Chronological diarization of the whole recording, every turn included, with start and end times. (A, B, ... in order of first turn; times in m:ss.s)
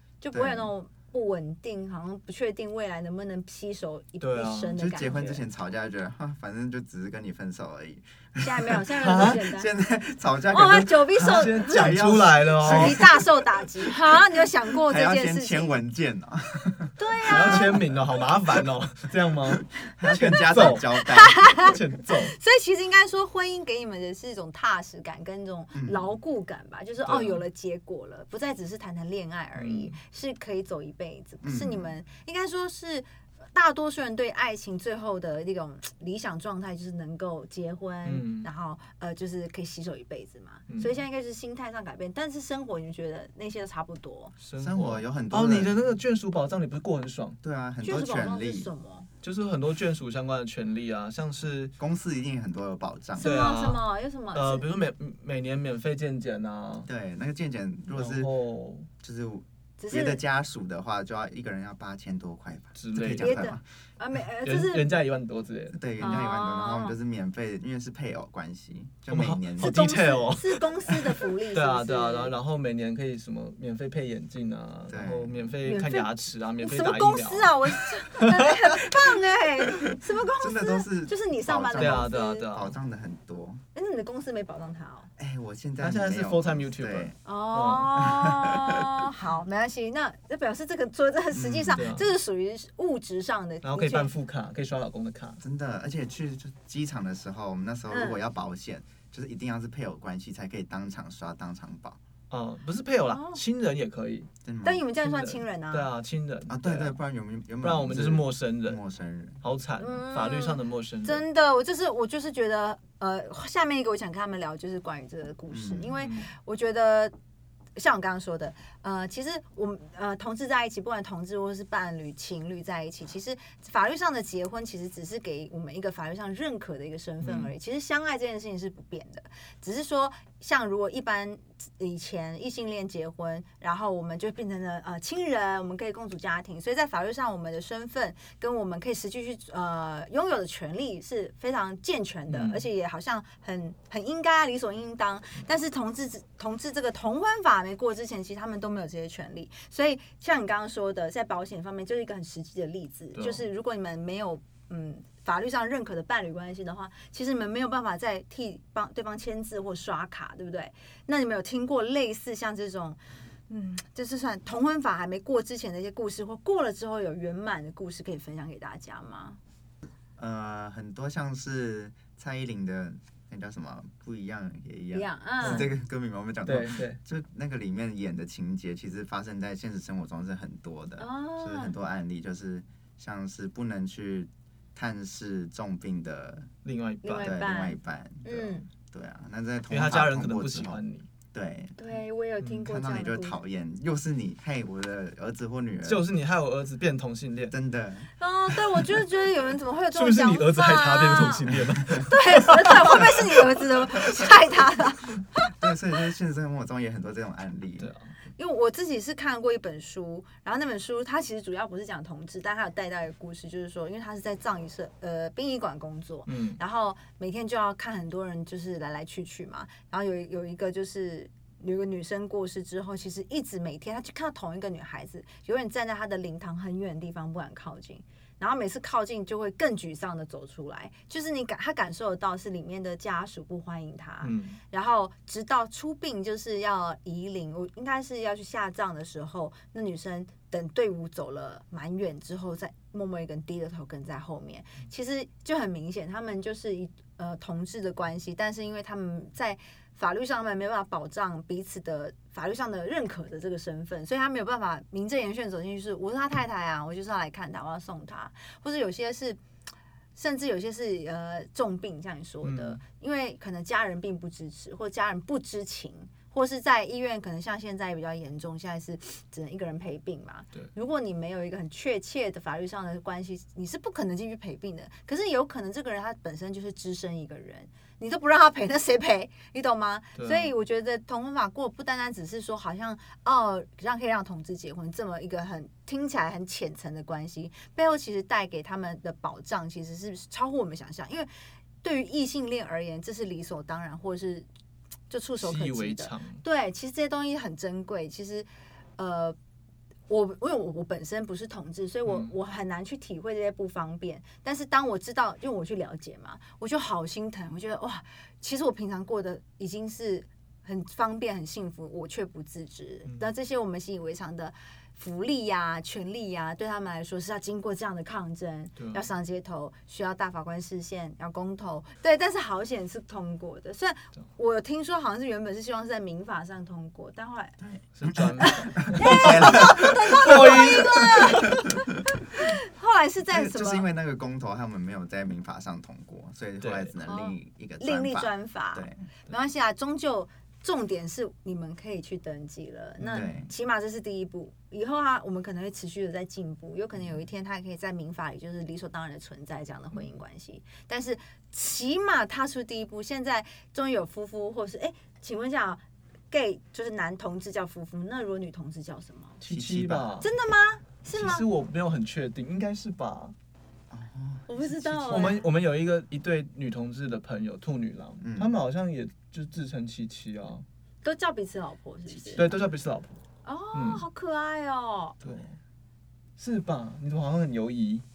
0:00.2-0:05.4 A
0:00.3-0:00.7 B
0:04.2-0:04.8 C
0:04.7-0:14.2 B
0:08.4-0:09.7 A
0:09.0-0:09.5 C
0:10.5-0:12.1 A
0:11.2-0:13.0 C
0:12.6-0:15.7 A
0:14.7-0:18.0 B
0:17.0-0:17.8 A
0:17.3-0:22.4 C
0:19.8-0:21.7 B
0:20.5-0:44.3 A
0:25.7-0:26.1 B
0:27.0-0:27.4 C
0:29.5-0:30.0 C
0:31.4-0:32.0 B
0:38.0-0:38.5 C
0:40.7-0:41.0 C
0:44.4-0:47.4 C
0:44.6-0:45.8 B
0:47.4-0:48.7 B
0:47.8-0:49.1 A
0:49.2-0:51.7 C
0:51.8-0:53.4 B
0:53.2-0:54.7 A
0:53.2-0:56.9 C
0:56.8-0:58.3 B
0:57.9-0:58.9 C
0:59.0-1:03.6 B
0:59.8-1:00.2 A
1:02.7-1:03.4 C
1:03.2-1:05.0 A
1:04.4-1:05.8 C
1:05.7-1:09.8 B
1:06.0-1:07.0 A
1:09.1-1:18.9 C
1:09.6-1:12.3 A
1:14.9-1:15.6 B
1:15.6-1:22.5 A
1:20.4-1:23.6 B
1:21.8-1:22.8 C
1:23.7-1:25.1 A
1:25.2-1:27.2 B
1:25.8-1:28.1 C
1:27.2-1:34.1 A
1:28.0-1:28.9 B
1:31.3-1:31.8 B
1:31.7-1:32.1 C
1:33.6-1:35.4 C
1:35.4-1:42.0 B
1:37.9-1:38.2 A
1:42.3-1:44.3 C
1:43.1-1:43.4 A
1:44.4-1:44.8 B
1:44.6-1:45.9 A
1:45.0-1:47.0 C
1:46.5-1:49.4 B
1:47.6-1:48.8 C
1:49.4-1:51.2 C
1:49.8-1:57.1 A
1:55.5-1:56.0 B
1:56.0-1:56.3 C
1:57.8-2:49.4 A
2:07.2-2:07.5 C
2:22.3-2:22.6 C
2:33.1-2:33.4 C
2:50.2-3:06.5 B
2:54.9-2:55.7 A
2:55.4-2:55.7 C
2:56.4-2:57.0 C
3:01.0-3:01.8 A
3:06.6-3:07.3 C
3:07.0-3:08.7 A
3:07.2-3:10.8 B
3:09.7-3:11.1 C
3:11.3-3:11.9 B
3:11.8-3:13.4 A
3:12.6-3:16.1 B
3:15.8-3:17.5 C
3:17.5-3:18.1 B
3:18.2-3:21.5 A
3:19.9-3:23.4 C
3:22.0-3:25.5 A
3:25.5-3:27.9 B
3:27.8-3:28.1 C
3:28.4-4:19.4 A
3:36.3-3:36.6 C
3:54.2-3:54.6 C
4:20.2-4:51.3 A
4:22.4-4:22.8 C
4:40.2-4:40.5 C
4:51.8-4:54.5 A
4:55.1-4:59.4 A
4:55.4-4:56.4 C
5:00.1-5:27.6 A
5:02.0-5:02.3 C
5:18.8-5:19.0 C
5:27.6-5:31.9 B
5:27.9-5:31.6 C
5:28.4-5:33.9 A
5:33.3-5:39.0 B
5:36.6-5:36.9 C
5:37.0-5:59.4 A
5:43.0-5:43.4 C
5:43.0-5:43.5 B
5:59.4-6:00.3 C
5:59.4-6:00.1 B
6:00.2-6:01.5 A
6:01.1-6:03.3 C
6:03.9-6:05.0 B
6:04.5-6:05.4 A
6:04.8-6:10.6 C
6:08.2-6:08.5 B
6:11.0-6:12.5 A
6:12.3-6:13.2 C
6:13.4-6:15.2 A
6:13.7-6:14.0 C
6:15.2-6:15.6 C
6:16.4-6:18.0 C